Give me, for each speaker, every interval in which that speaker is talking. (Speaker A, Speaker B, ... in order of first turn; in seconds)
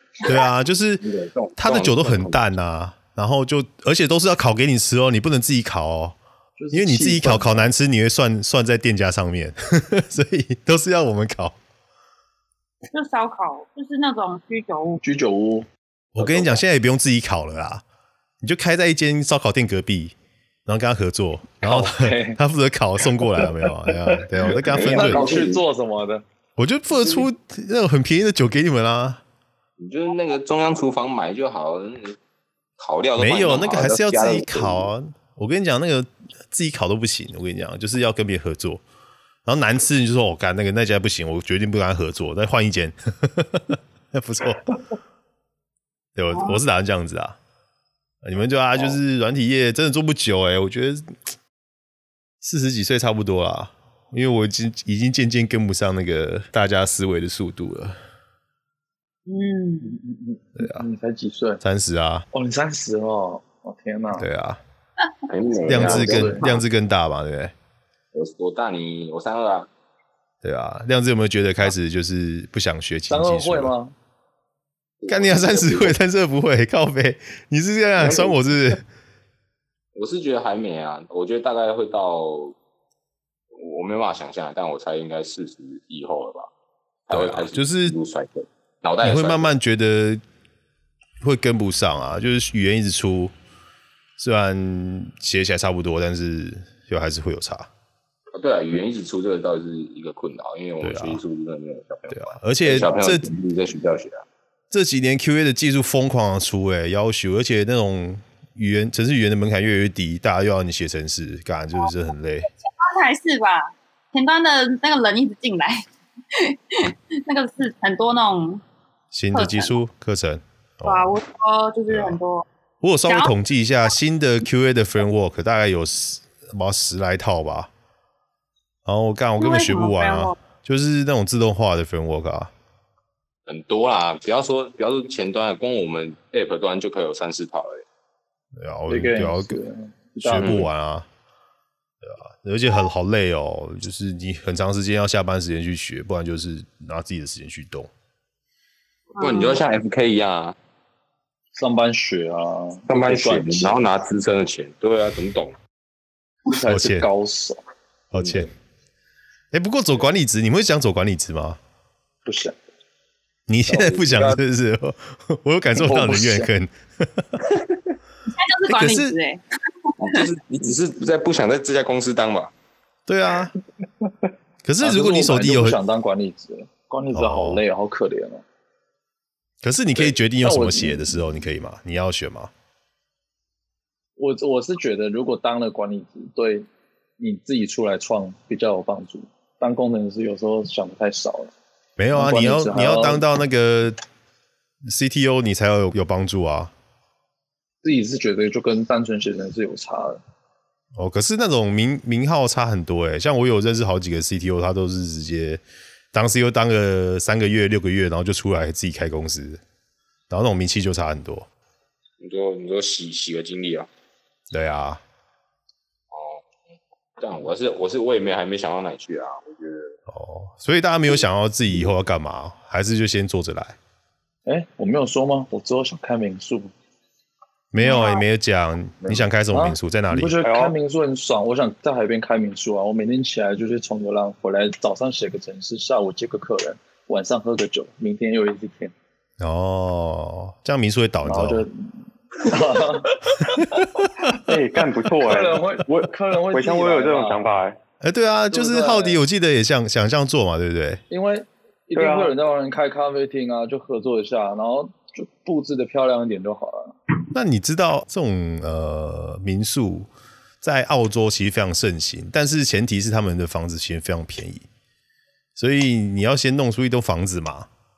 Speaker A: 0.2-1.1, 1.6-6.2, 6.7-11.6, 16.1-17.8, 18.4-20.1, 20.7-25.2, 26.6-29.2, 33.2-38.8, 39.5-44.8, 46.2-47.4, 48.2-51.1, 52.4-58.0, 60.6-60.8, 61.6-62.2, 64.2-64.6, 65.7-67.5, 70.4-73.7, 75.1-78.8, 87.1-88.0, 89.0-90.2, 91.2-93.3, 94.2-97.7, 100.8-101.2, 102.1-103.2, 104.7-112.5, 119.1-121.2, 121.9-122.2, 122.8-127.7, 128.9-132.5, 138.6-139.6, 140.2-141.1, 142.0-147.9, 156.7-157.1, 158.1-158.5, 159.5-161.6, 163.5-167.4, 168.7-169.2, 173.1-173.5, 174.6-175.8, 177.1-177.6, 179.6-182.5, 192.0-194.0, 194.9-196.7, 201.0-205.6, 206.1-209.6, 210.3-211.5, 214.5-215.0, 220.1-223.8, 227.7-230.3, 239.4-241.7, 243.6-244.1, 248.0-251.0, 257.3-260.1, 260.6-264.7, 265.6-267.7
Speaker B: 1.0-2.5, 16.2-16.6, 24.5-25.6, 29.8-32.2, 32.8-34.9, 65.3-66.7, 68.1-69.7, 75.0-76.0, 78.0-78.4, 80.0-82.5, 83.6-86.5, 87.1-89.5, 98.3-104.2, 133.5-137.8, 140.4-140.7, 149.2-150.6, 152.9-155.6, 158.1-158.5, 163.7-164.4, 170.0-172.5, 212.2-213.9, 216.1-216.4, 217.2-219.9
Speaker C: 6.6-7.7, 15.0-15.7, 21.6-22.4, 23.4-26.2, 59.8-61.6, 62.3-64.3, 65.7-66.5, 73.1-74.0, 138.9-140.6, 151.6-153.8, 156.5-157.6, 162.2-162.6, 165.8-166.5, 174.8-178.4, 180.0-181.0, 184.2-186.7, 187.2-191.5, 192.1-193.2, 197.8-200.2, 224.5-226.7, 229.1-238.9, 241.2-241.7, 242.4-243.6, 245.2-247.4, 248.5-249.2, 251.1-257.0
Speaker D: 12.9-15.0, 59.3-59.9, 112.5-118.6, 119.3-119.8, 120.8-122.5, 129.4-130.3, 149.2-149.6, 168.3-169.4, 227.8-228.2
Speaker E: 230.4-230.8, 244.3-245.9, 246.5-247.8, 251.9-252.3